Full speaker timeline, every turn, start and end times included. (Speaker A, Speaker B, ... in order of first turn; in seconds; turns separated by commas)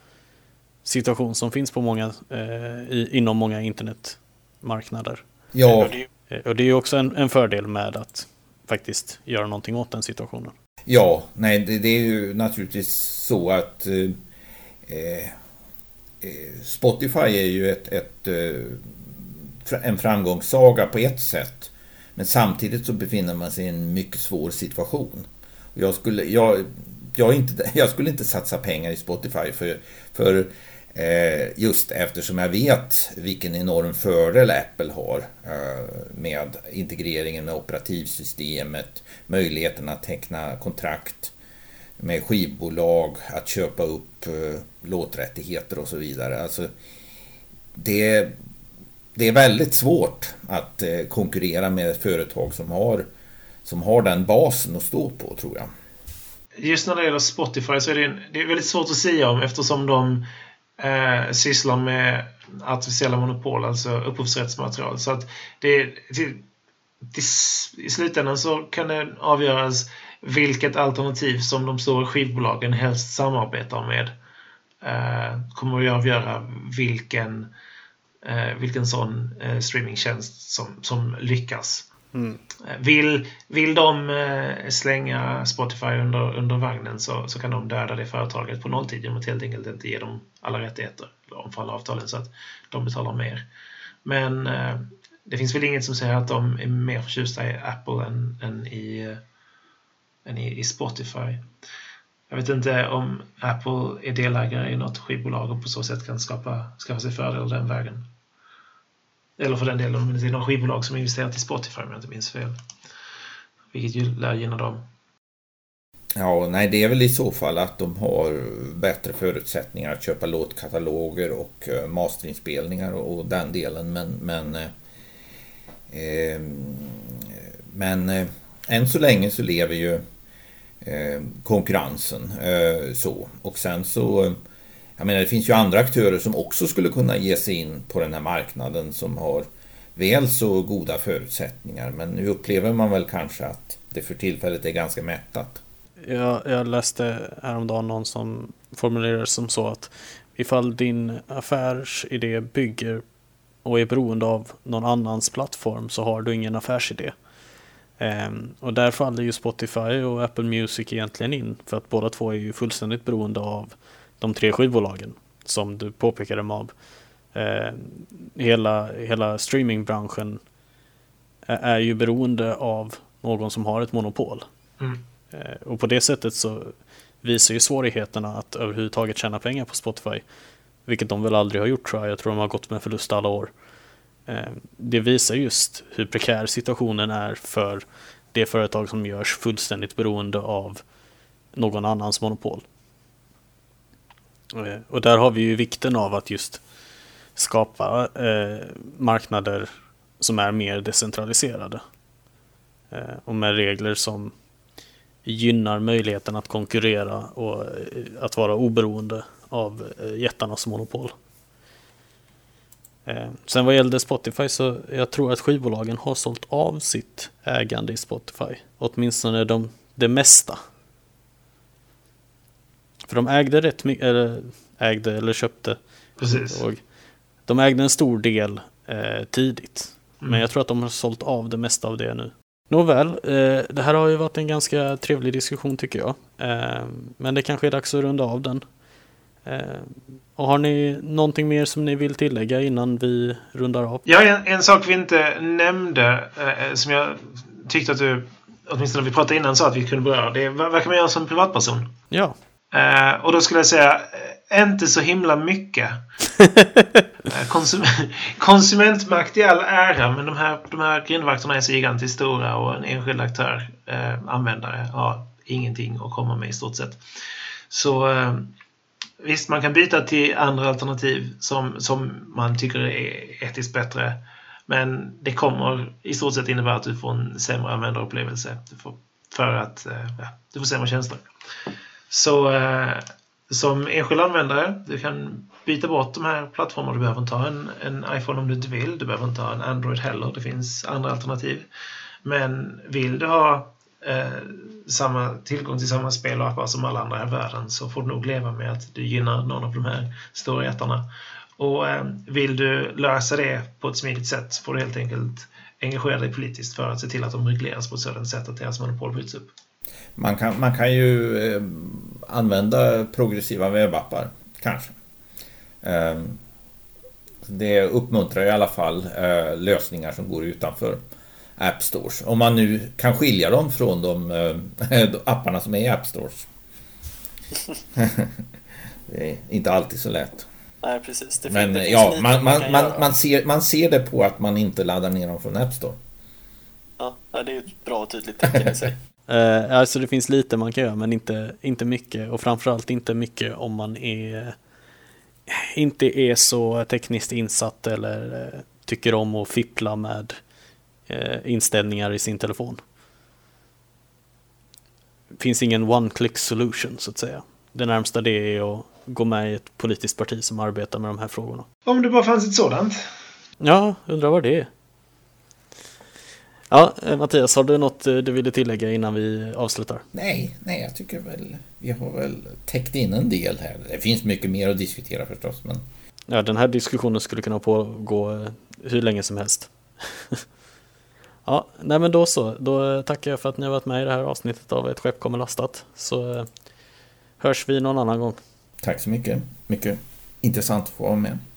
Speaker A: 0.8-5.2, Speaker B: 5.5-6.0, Speaker A: 6.3-10.5, Speaker B: 10.8-14.2, Speaker B: 14.8-15.3, Speaker B: 16.2-18.9, Speaker B: 19.6-41.3, Speaker B: 42.0-46.7, Speaker B: 47.7-48.3, Speaker B: 49.1-53.0, Speaker B: 53.6-55.7, Speaker C: 56.6-60.2, Speaker C: 60.8-66.4, Speaker C: 67.1-74.1, Speaker C: 74.8-77.5, Speaker C: 78.2-81.9, Speaker A: 82.1-82.4, Speaker C: 82.6-93.4, Speaker C: 94.0-99.2, Speaker C: 100.2-101.4, Speaker C: 102.3-108.0, Speaker C: 109.4-112.5, Speaker C: 113.7-114.8, Speaker B: 116.2-124.7, Speaker B: 125.9-130.0, Speaker B: 130.8-134.4, Speaker B: 135.0-145.6, Speaker A: 146.0-153.0, Speaker A: 153.6-157.1, Speaker A: 158.0-166.7, Speaker A: 167.3-170.4, Speaker A: 171.4-174.4, Speaker A: 175.3-180.2, Speaker A: 180.8-183.5, Speaker A: 184.3-190.8, Speaker A: 191.5-192.6, Speaker A: 194.5-196.6, Speaker A: 197.3-201.8, Speaker A: 202.9-204.3, Speaker A: 205.2-211.1, Speaker A: 213.1-220.6, Speaker A: 223.1-226.8, Speaker C: 226.2-226.6, Speaker A: 227.5-238.6, Speaker A: 239.4-244.0, Speaker C: 244.1-251.9, Speaker A: 252.1-252.3, Speaker C: 252.7-256.0, Speaker A: 256.4-257.0, Speaker C: 257.3-267.0, Speaker C: 267.7-268.5, Speaker C: 269.2-281.2, Speaker C: 282.1-291.7, Speaker C: 292.2-301.1, Speaker C: 301.6-309.5, Speaker B: 310.2-314.9, Speaker B: 315.8-316.4, Speaker B: 317.4-321.0, Speaker B: 321.6-326.5, Speaker B: 327.9-328.4, Speaker B: 329.1-330.5, Speaker A: 330.8-333.1, Speaker B: 331.5-336.0, Speaker A: 337.0-344.6, Speaker A: 345.5-350.4, Speaker A: 351.1-352.8, Speaker A: 355.4-361.6, Speaker C: 361.9-363.0, Speaker A: 363.6-364.7, Speaker A: 366.7-370.0, Speaker B: 370.1-375.8, Speaker A: 376.3-380.4, Speaker A: 381.4-386.5, Speaker A: 387.4-388.4, Speaker B: 388.8-391.4